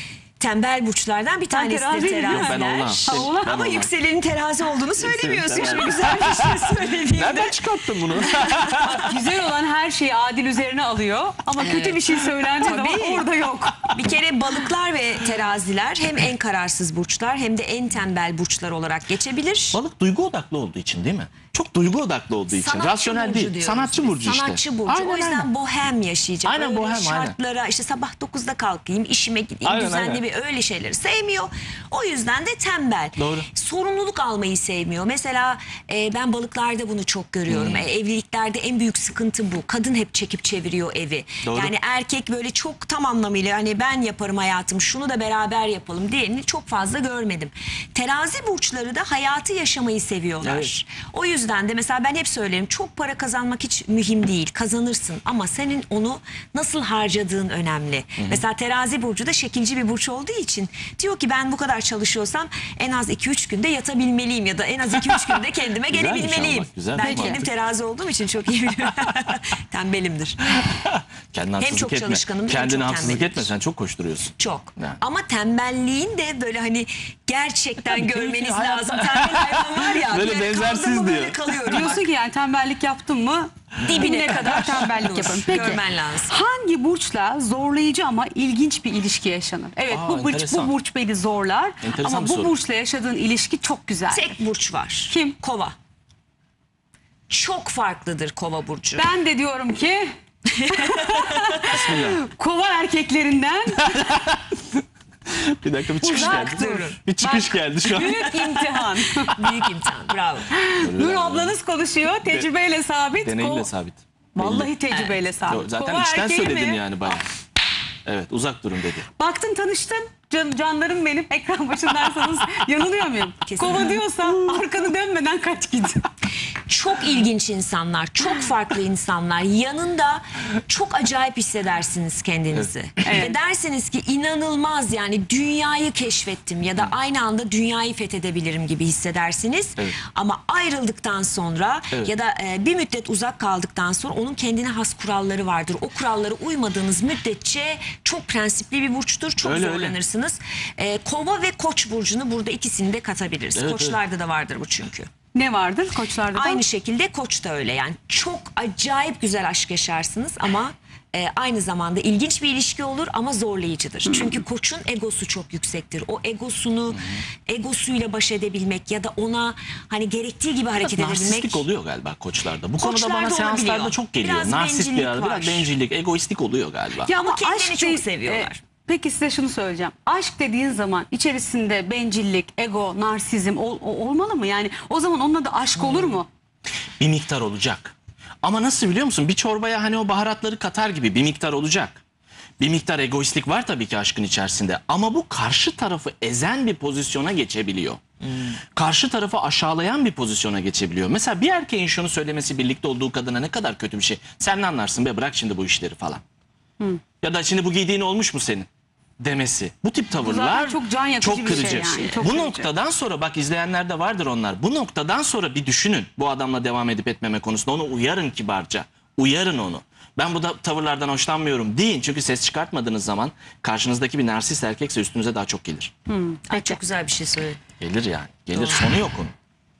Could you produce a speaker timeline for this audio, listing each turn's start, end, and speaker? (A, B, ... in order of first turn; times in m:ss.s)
0:00.4-0:07.6 A
0:01.5-0:03.6 B
0:02.2-0:03.9 C
0:05.0-0:09.2 C
0:08.1-0:09.1 A
0:08.8-0:13.9 B
0:11.6-0:13.3 A
0:13.9-0:19.8 A
0:19.7-0:25.5 C
0:22.5-1:10.6 A
0:26.4-0:27.4 C
0:29.6-0:30.2 C
0:33.2-0:33.5 C
0:37.5-0:37.9 C
0:41.4-0:41.7 C
0:50.4-0:50.7 C
1:05.1-1:07.4 C
1:07.0-1:07.4 B
1:10.6-1:15.0 C
1:11.6-1:13.5 A
1:14.4-1:22.1 A
1:17.8-1:21.4 C
1:21.7-1:34.4 B
1:23.8-1:26.3 A
1:23.9-1:24.5 C
1:29.9-1:30.7 C
1:31.8-1:32.5 C
1:34.1-1:35.8 A
1:35.1-1:35.4 B
1:37.3-1:39.1 A
1:39.0-1:40.1 B
1:40.5-1:41.6 A
1:40.7-1:44.0 B
1:41.7-1:42.2 C
1:43.8-1:44.6 C
1:45.3-1:49.4 C
1:46.0-1:47.0 A
1:46.0-1:49.3 B
1:49.4-1:50.5 A
1:50.5-1:53.7 B
1:50.8-1:51.6 C
1:53.2-1:54.7 C
1:54.4-1:56.8 B
1:54.9-1:55.2 A
1:55.5-1:57.3 C
1:58.1-1:59.1 C
1:59.2-2:06.1 B
2:03.5-2:04.0 A
2:06.7-2:35.1 A
2:12.6-2:13.3 C
2:13.0-2:13.4 B
2:29.4-2:30.0 C
2:33.6-2:34.0 C
2:35.3-2:36.6 B
2:36.3-2:51.7 A
2:44.1-2:44.3 B
2:46.9-2:47.2 C
2:50.8-2:57.1 C
2:52.8-2:55.7 A
2:57.0-2:58.6 A
2:57.1-3:06.3 B
3:05.8-3:06.2 A
3:07.0-3:12.0 C
3:12.6-3:26.2 C
3:27.2-3:28.7 C
3:29.2-3:45.9 C
3:30.2-3:32.7 B
3:31.4-3:32.1 A
3:46.1-3:46.8 B
3:46.5-3:47.6 A
3:47.8-3:49.3 C